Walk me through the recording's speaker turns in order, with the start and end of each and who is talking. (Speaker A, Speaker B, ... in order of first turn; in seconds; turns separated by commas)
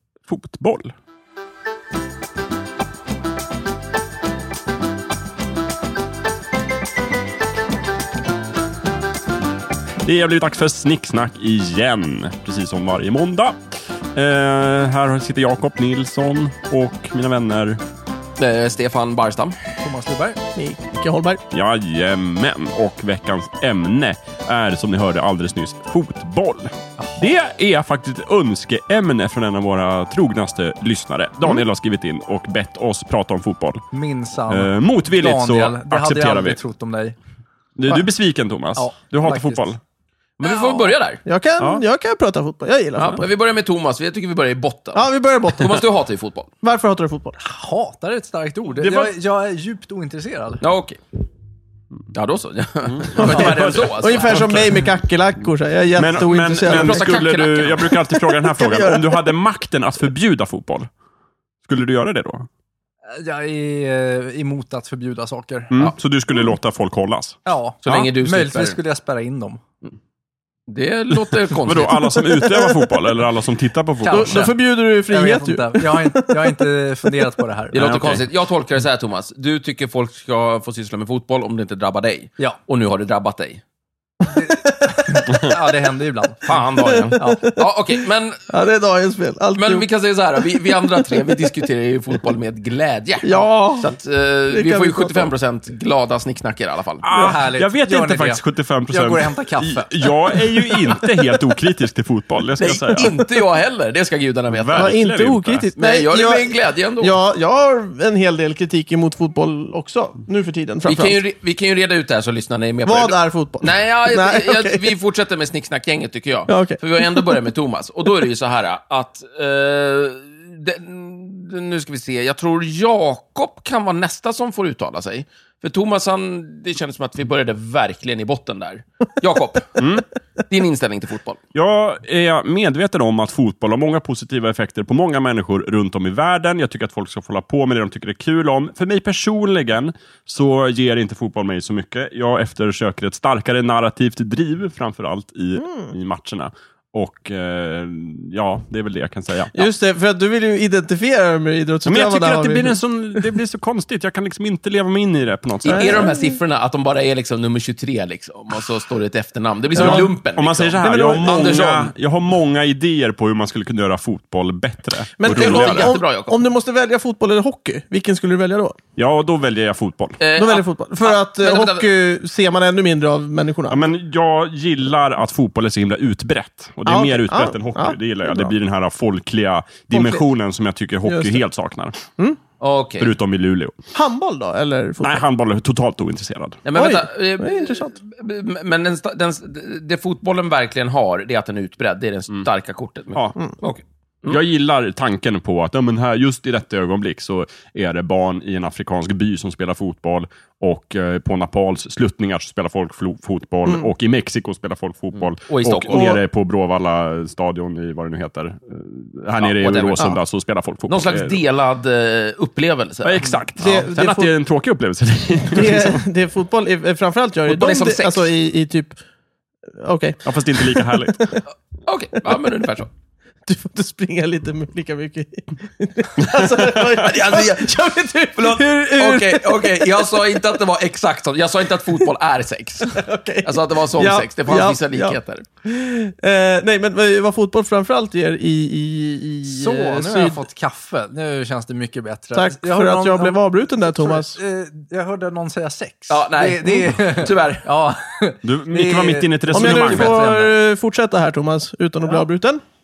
Speaker A: 0.2-0.9, Speaker A: 10.0-17.8, Speaker B: 18.4-19.6, Speaker C: 19.8-20.4, Speaker D: 20.6-21.4, Speaker A: 21.5-33.8, Speaker C: 33.9-37.1, Speaker A: 34.5-36.6, Speaker A: 37.8-39.8, Speaker C: 38.8-39.7, Speaker B: 40.4-41.2, Speaker D: 41.2-43.3, Speaker B: 43.0-46.5, Speaker D: 44.9-45.9, Speaker D: 46.6-47.4, Speaker C: 47.4-50.6, Speaker A: 48.8-49.1, Speaker B: 50.6-51.0, Speaker B: 52.1-54.5, Speaker A: 52.8-54.8, Speaker D: 53.1-57.2, Speaker A: 56.0-60.9, Speaker B: 56.2-57.9, Speaker D: 58.3-59.3, Speaker A: 61.6-62.5, Speaker C: 63.1-65.7, Speaker A: 65.7-67.4, Speaker C: 67.4-69.6, Speaker B: 67.8-68.8, Speaker B: 70.7-72.2, Speaker A: 71.5-74.5, Speaker D: 72.5-72.9, Speaker C: 74.0-77.8, Speaker D: 74.1-76.6, Speaker B: 77.7-83.6, Speaker A: 77.7-78.2, Speaker C: 84.3-86.6, Speaker D: 84.4-85.3, Speaker B: 86.4-88.4, Speaker D: 86.8-87.7, Speaker D: 88.5-89.9, Speaker B: 89.6-97.0, Speaker D: 90.4-91.5, Speaker D: 93.2-93.9, Speaker D: 94.5-95.3, Speaker A: 97.0-103.1, Speaker C: 97.1-100.4, Speaker D: 97.1-97.4, Speaker B: 102.6-104.9, Speaker A: 104.5-105.7, Speaker D: 104.7-111.2, Speaker B: 105.8-107.2, Speaker B: 110.8-129.8, Speaker D: 112.8-114.9, Speaker D: 116.5-117.4, Speaker A: 129.8-130.1, Speaker B: 130.5-131.4, Speaker A: 131.5-149.7, Speaker D: 145.6-145.9, Speaker D: 149.5-153.2, Speaker A: 151.8-156.1, Speaker B: 155.6-161.9, Speaker D: 155.7-156.4, Speaker A: 159.7-165.9, Speaker D: 159.8-160.1, Speaker D: 160.8-161.8, Speaker D: 165.2-168.8, Speaker B: 165.2-166.4, Speaker A: 169.0-170.2, Speaker B: 170.2-171.9, Speaker D: 170.4-173.8, Speaker A: 173.7-182.0, Speaker D: 176.8-178.5, Speaker D: 179.9-180.2, Speaker D: 181.0-181.4, Speaker B: 182.6-183.1, Speaker A: 183.0-183.8, Speaker D: 183.9-185.2, Speaker A: 185.0-186.6, Speaker B: 186.6-194.4, Speaker D: 186.7-187.9, Speaker A: 194.3-211.4, Speaker B: 205.3-206.2, Speaker D: 205.9-206.2, Speaker B: 209.4-210.1, Speaker B: 210.9-213.3, Speaker A: 213.0-216.0, Speaker D: 213.6-214.3, Speaker D: 215.4-218.9, Speaker B: 217.4-218.3, Speaker D: 219.8-221.4, Speaker A: 220.2-221.4, Speaker B: 221.8-222.9, Speaker D: 223.4-230.4, Speaker A: 226.2-227.0, Speaker B: 227.0-227.7, Speaker B: 228.3-235.4, Speaker D: 232.9-240.4, Speaker C: 239.4-250.5, Speaker D: 242.3-244.4, Speaker B: 246.1-247.7, Speaker A: 248.4-250.2, Speaker D: 249.5-252.6